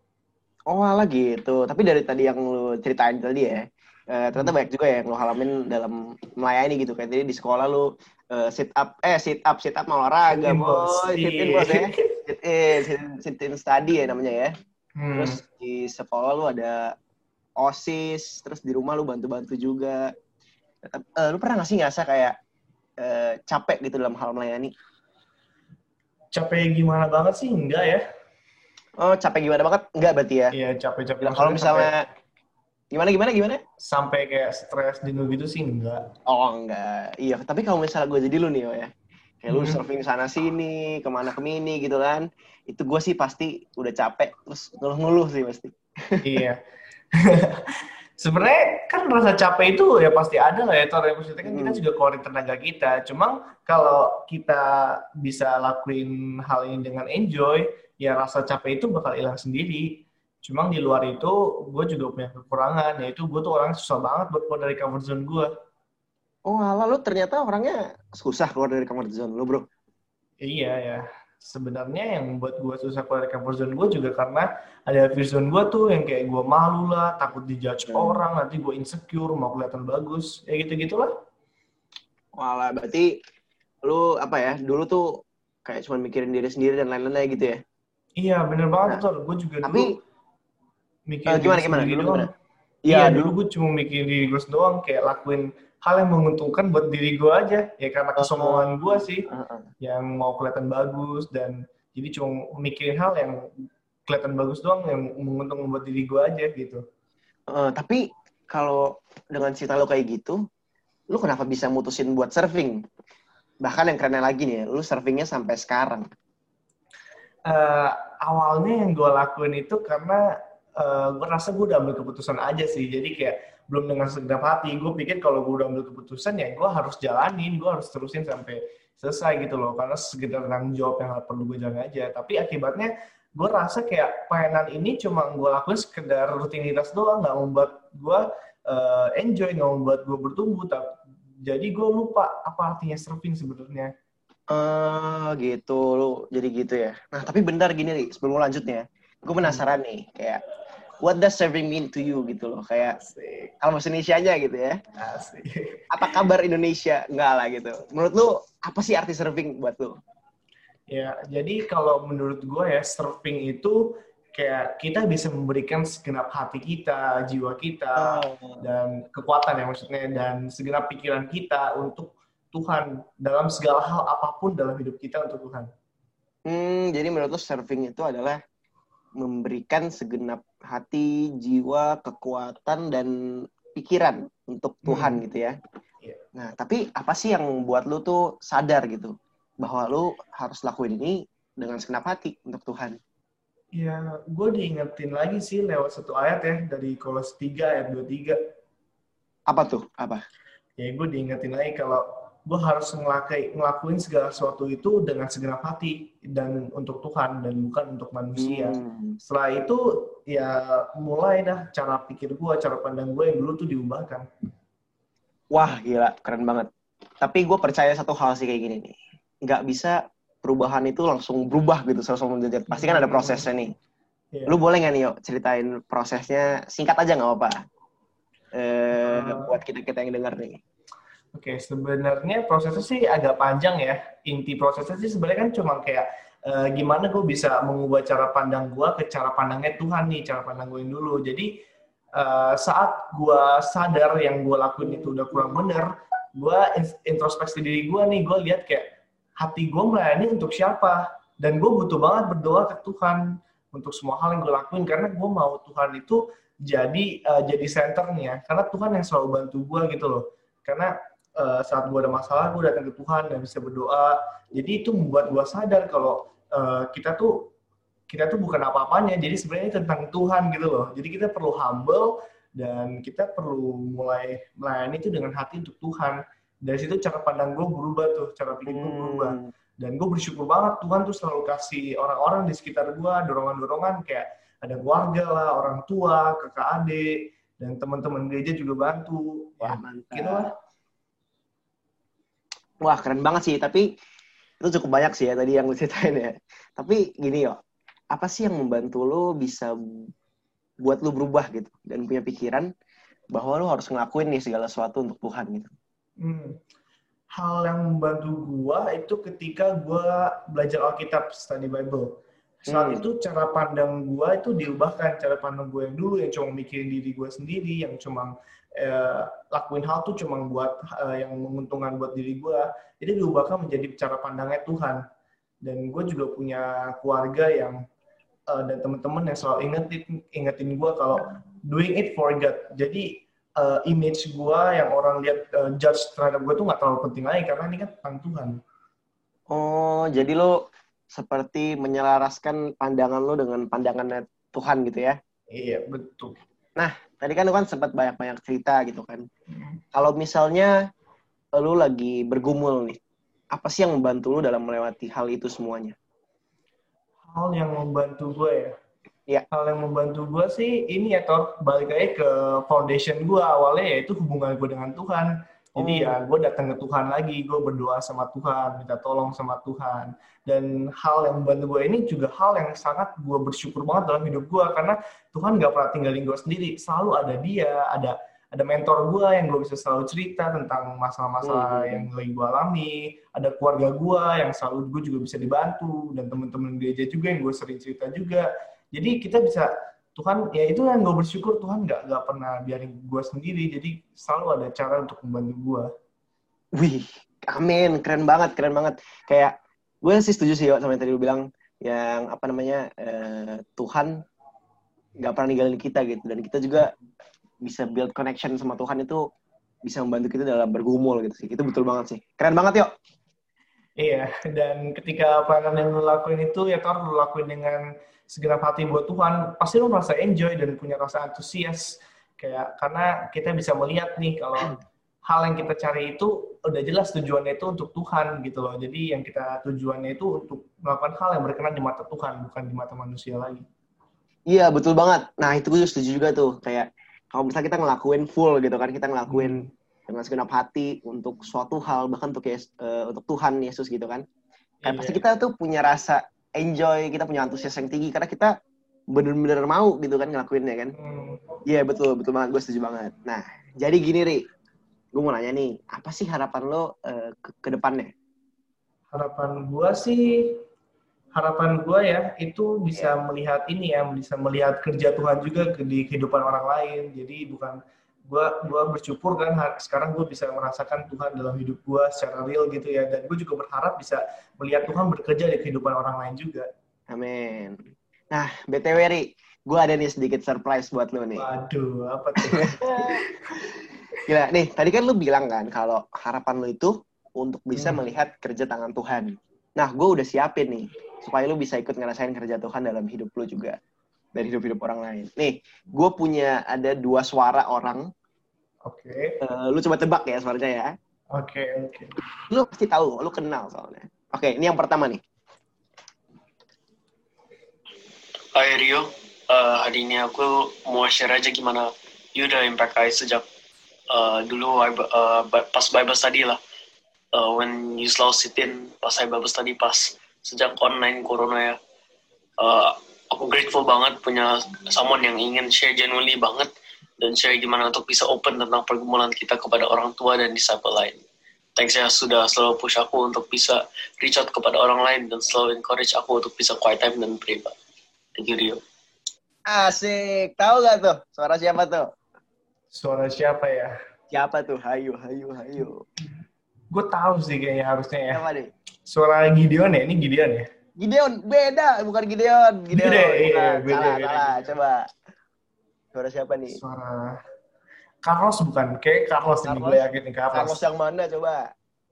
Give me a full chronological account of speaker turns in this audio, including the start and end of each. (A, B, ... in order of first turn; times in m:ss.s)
0:00.7-0:14.5 A
0:10.3-0:12.2 B
0:15.0-0:15.4 B
0:15.1-0:16.9 A
0:17.6-0:20.0 A
0:20.9-0:22.3 A
0:23.0-0:24.7 A
0:26.3-0:28.0 B
0:29.0-0:30.5 A
0:30.5-0:31.9 B
0:31.2-0:32.0 A
0:32.9-0:33.6 A
0:33.8-0:36.0 B
0:36.3-0:38.9 A
0:39.4-0:46.2 A
0:39.5-0:39.8 B
0:46.2-0:46.6 B
0:48.2-0:59.9 B
0:51.4-0:51.8 A
1:00.4-1:05.5 B
1:06.5-1:09.6 A
1:10.4-1:21.1 B
1:17.9-1:18.2 A
1:22.4-1:23.1 A
1:23.8-1:25.0 A
1:25.6-1:27.6 A
1:28.2-1:29.9 B
1:31.1-1:32.2 B
1:31.3-1:32.3 A
1:32.8-1:33.3 A
1:32.9-1:39.2 B
1:38.2-1:39.7 A
1:39.8-1:43.4 B
1:44.0-1:46.8 B
1:47.5-1:50.4 A
1:51.1-1:52.8 A
1:53.6-1:56.0 A
1:57.5-2:00.2 B
2:00.8-2:20.8 B
2:21.4-2:23.9 B
2:24.5-2:30.4 A
2:31.0-2:33.0 A
2:33.0-2:33.5 B
2:33.6-2:34.8 A
2:35.0-2:35.8 B
2:35.9-2:39.9 A
2:40.9-2:43.8 B
2:44.3-2:55.7 B
2:48.0-2:48.6 A
2:56.5-2:58.4 A
2:59.2-3:05.5 A
3:04.8-3:05.2 B
3:06.3-3:13.0 A
3:13.7-3:18.4 B
3:19.5-3:20.2 A
3:20.8-3:34.2 B
3:28.4-3:29.2 A
3:35.5-3:36.7 A
3:37.2-3:43.7 A
3:42.7-3:43.5 B
3:44.5-3:47.5 A
3:48.5-3:50.6 A
3:49.0-3:49.5 B
3:51.3-4:01.5 B
4:02.2-4:08.8 B
4:09.4-4:13.2 B
4:13.7-4:27.3 B
4:28.1-4:50.5 B
4:38.7-4:39.5 A
4:49.6-4:50.5 A
4:52.8-4:53.9 A
4:54.6-4:57.6 A
4:58.1-4:59.7 A
5:00.8-5:02.7 A
5:03.3-5:05.7 A
5:06.2-5:06.5 B
5:07.4-5:12.1 B
5:12.6-5:25.0 B
5:12.7-5:13.0 A
5:25.6-5:27.8 B
5:28.5-5:33.1 B
5:33.6-5:38.6 B
5:39.5-5:40.6 A
5:41.1-5:45.2 A
5:45.5-5:46.4 B
5:46.8-5:49.2 A
5:49.5-5:49.8 B
5:49.9-5:50.7 A
5:51.6-5:53.0 A
5:53.5-5:55.9 A
5:57.3-5:58.7 B
5:59.5-6:35.9 B
6:05.8-6:06.2 A
6:21.4-6:22.1 A
6:36.8-6:44.1 A
6:45.2-6:46.9 A
6:47.6-6:49.2 A
6:49.8-6:52.9 A
6:54.0-7:01.8 B
7:02.4-7:04.7 B
7:05.3-7:13.6 B
7:14.5-7:24.2 A
7:19.3-7:19.6 B
7:24.8-7:25.2 B
7:24.8-7:28.5 A
7:29.1-7:31.0 A
7:30.9-7:31.4 B
7:31.7-7:34.4 A
7:35.1-7:38.1 A
7:39.1-7:40.6 B
7:41.3-7:47.8 B
7:48.3-7:56.7 B
7:57.1-7:57.8 A
7:58.3-8:01.5 A
8:01.4-8:02.8 B
8:02.5-8:03.2 A
8:03.3-8:03.6 B
8:04.2-8:13.8 A
8:07.8-8:08.0 B
8:14.4-8:18.0 A
8:18.8-8:19.4 B
8:19.4-8:20.9 A
8:21.3-8:22.1 B
8:22.5-8:25.2 A
8:28.6-8:33.4 C
8:34.1-8:36.6 C
8:37.3-8:41.8 C
8:42.6-8:46.7 C
8:47.2-8:51.2 C
8:51.8-8:57.7 C
8:58.4-8:58.8 C
8:59.7-9:02.0 A
9:02.9-9:03.9 B
9:04.3-9:06.0 A
9:06.9-9:08.4 B
9:08.3-9:08.7 A
9:09.1-9:10.6 B
9:11.0-9:15.0 A
9:12.9-9:14.8 B
9:16.1-9:16.8 A
9:16.7-9:17.4 B
9:18.2-9:20.8 B
9:19.6-9:21.6 A